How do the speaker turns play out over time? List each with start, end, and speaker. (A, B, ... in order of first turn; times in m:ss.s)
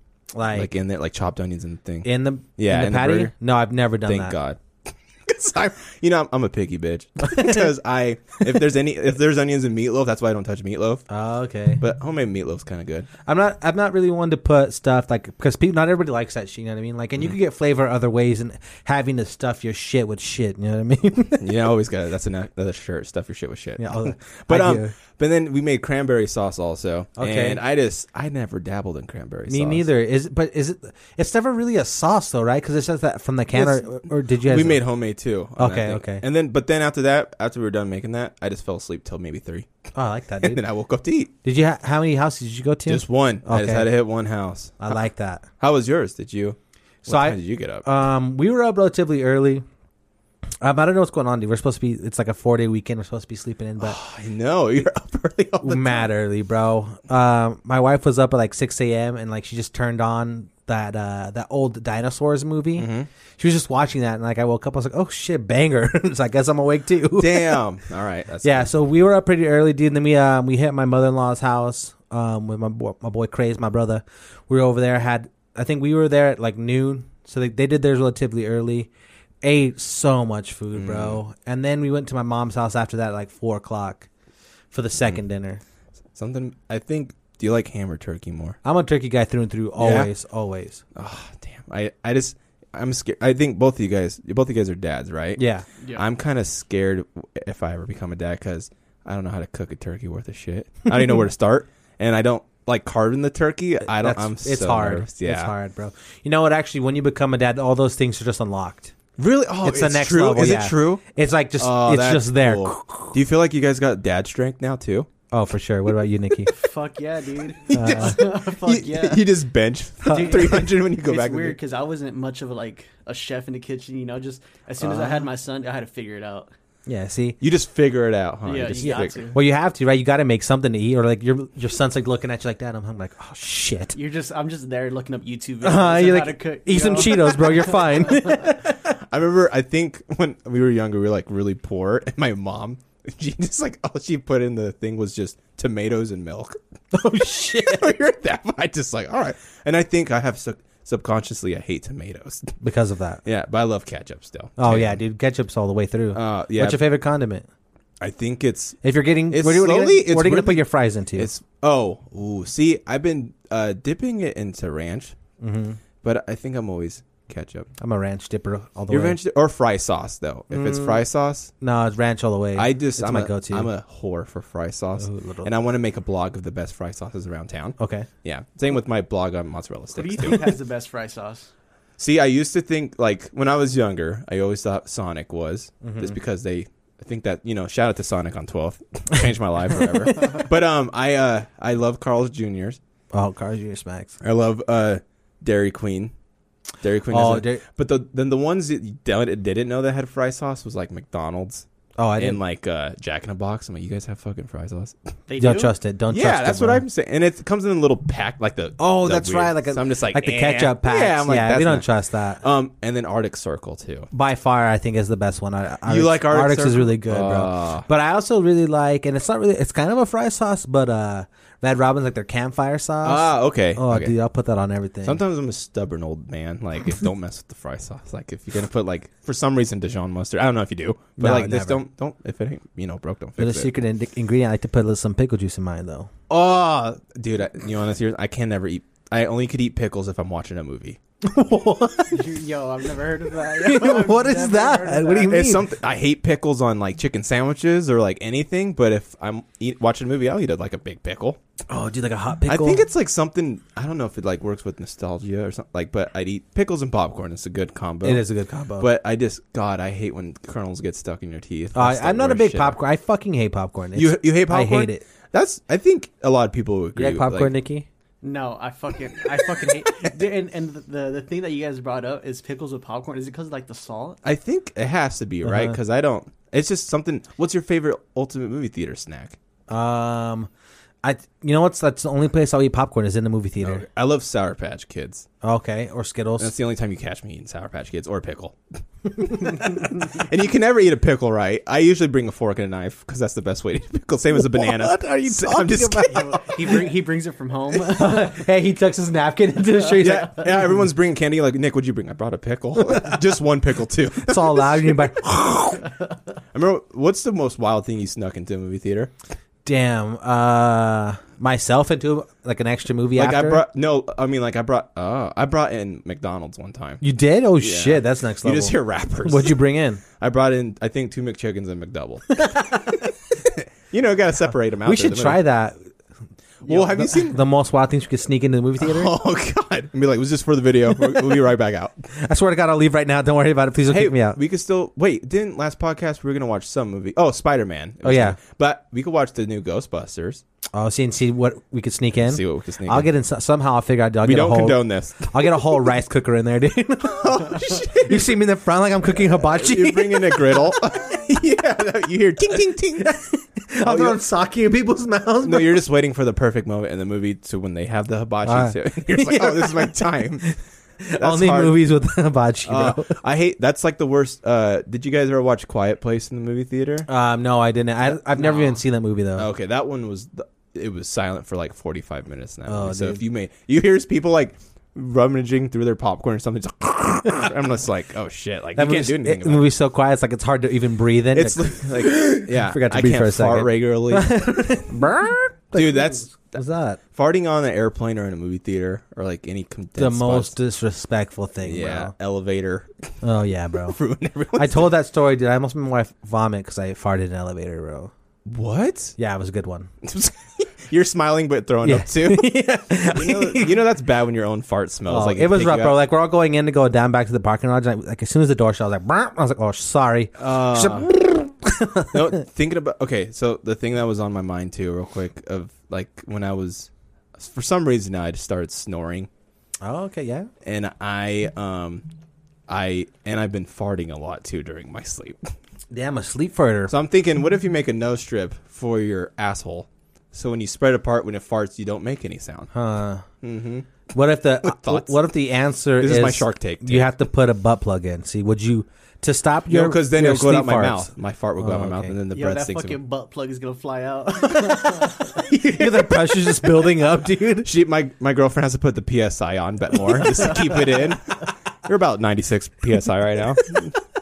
0:00.3-0:00.7 A
0:00.5-0:03.3 B
0:02.0-0:04.3 A
0:04.0-0:11.0 B
0:07.3-0:07.6 A
0:11.1-0:11.8 A
0:11.8-0:13.1 B
0:13.2-0:21.4 A
0:21.4-0:29.9 B
0:23.8-0:24.9 A
0:27.2-0:27.6 A
0:29.5-0:34.8 A
0:33.5-0:39.7 B
0:35.6-0:36.2 A
0:39.9-0:40.6 A
0:40.4-0:41.3 B
0:41.4-0:43.9 A
0:42.8-0:45.0 B
0:44.8-0:45.5 A
0:45.6-0:47.8 B
0:47.1-0:49.6 A
0:50.6-0:54.0 A
0:53.8-0:56.1 B
0:55.6-1:07.6 A
1:02.8-1:03.1 B
1:07.2-1:08.7 B
1:08.4-1:18.9 A
1:19.4-1:24.1 A
1:20.7-1:21.2 B
1:24.7-1:25.6 A
1:26.1-1:28.6 B
1:28.6-1:30.8 A
1:29.8-1:30.1 B
1:30.9-1:45.5 B
1:35.4-1:35.6 A
1:43.8-1:48.9 A
1:49.2-1:51.0 B
1:49.6-1:53.2 A
1:51.6-1:55.1 B
1:55.3-1:56.5 A
1:56.5-1:59.3 C
1:57.7-1:58.2 A
1:57.8-2:01.6 B
2:00.1-2:00.5 A
2:00.1-2:06.5 C
2:04.8-2:05.2 A
2:06.9-2:07.4 A
2:07.4-2:09.3 B
2:08.4-2:09.4 C
2:08.8-2:13.9 A
2:13.9-2:18.6 C
2:15.6-2:18.7 A
2:19.1-2:26.6 B
2:26.9-2:27.9 A
2:27.5-2:32.5 B
2:32.6-2:33.2 A
2:33.2-2:35.0 B
2:34.6-2:37.5 A
2:36.1-2:36.8 B
2:38.0-2:45.1 B
2:38.8-2:41.3 A
2:45.4-2:45.8 A
2:46.0-2:47.7 B
2:47.8-2:49.2 A
2:48.9-2:51.5 B
2:50.5-2:51.0 A
2:51.6-2:53.7 A
2:52.6-3:00.4 B
2:55.0-2:55.5 A
2:57.8-2:58.1 A
2:59.9-3:01.5 C
3:02.0-3:12.8 B
3:05.8-3:06.2 A
3:13.1-3:14.2 A
3:14.2-3:16.1 B
3:16.8-3:21.6 B
3:17.1-3:17.6 A
3:22.0-3:22.4 A
3:22.2-3:24.9 B
3:25.3-3:25.7 C
3:25.4-3:26.8 A
3:26.1-3:31.9 B
3:28.8-3:32.4 A
3:32.4-3:34.1 B
3:34.1-3:45.2 A
3:35.8-3:37.9 B
3:43.0-3:44.2 B
3:45.0-3:53.7 B
3:51.2-3:51.8 A
3:53.4-3:56.1 A
3:56.3-4:01.0 B
4:01.2-4:02.2 A
4:02.1-4:05.4 C
4:03.6-4:05.6 A
4:05.2-4:11.4 B
4:11.7-4:12.8 A
4:12.4-4:18.2 B
4:18.0-4:18.9 A
4:18.8-4:22.8 B
4:21.7-4:25.0 A
4:23.9-4:27.5 B
4:27.0-4:27.8 A
4:28.2-4:34.2 C
4:29.6-4:30.1 B
4:34.2-4:39.4 B
4:35.4-4:35.8 A
4:39.7-4:40.5 A
4:41.0-4:43.8 A
4:43.6-4:45.3 B
4:45.4-4:46.5 A
4:46.4-4:56.8 B
4:49.2-4:49.7 A
4:54.3-4:56.2 A
4:56.1-4:58.3 C
4:57.9-5:00.5 A
5:00.0-5:05.8 B
5:04.2-5:05.8 A
5:06.5-5:09.1 B
5:09.6-5:13.6 A
5:13.2-5:17.0 B
5:17.0-5:20.0 A
5:17.6-5:19.6 B
5:20.2-5:22.6 B
5:22.4-5:23.0 A
5:23.4-5:25.4 B
5:24.8-5:25.8 A
5:26.6-5:27.4 B
5:26.7-5:29.1 A
5:28.8-5:32.0 B
5:32.2-5:34.4 A
5:33.9-5:40.4 B
5:38.0-5:38.4 A
5:40.7-5:47.5 A
5:42.2-5:43.1 B
5:44.2-5:45.8 B
5:47.0-5:48.4 B
5:48.0-5:50.7 A
5:49.1-5:53.1 B
5:53.0-5:55.8 A
5:53.8-5:54.2 B
5:55.4-6:00.4 B
5:58.4-6:03.2 A
6:01.2-6:01.8 B
6:02.6-6:07.1 B
6:07.1-6:09.5 A
6:08.3-6:08.8 C
6:09.4-6:19.7 B
6:12.7-6:13.2 A
6:18.8-6:27.0 A
6:21.3-6:24.8 B
6:25.7-6:26.6 B
6:27.1-6:30.6 B
6:30.0-6:32.1 A
6:31.6-6:33.1 B
6:33.2-6:34.0 A
6:33.8-6:34.9 B
6:34.6-6:38.1 A
6:38.4-6:39.1 B
6:39.2-6:39.9 A
6:40.0-6:46.0 B
6:41.8-6:43.8 A
6:45.1-6:52.2 A
6:50.4-6:51.2 B
6:52.1-6:59.3 B
6:59.8-7:00.5 A
7:00.6-7:02.0 B
7:02.7-7:05.4 B
7:05.9-7:06.9 A
7:06.9-7:12.7 B
7:12.7-7:13.2 A
7:13.4-7:14.1 B
7:14.1-7:22.1 A
7:14.6-7:15.3 B
7:16.0-7:17.1 B
7:19.7-7:23.0 B
7:22.3-7:25.4 C
7:24.5-7:27.7 A
7:27.6-7:33.9 B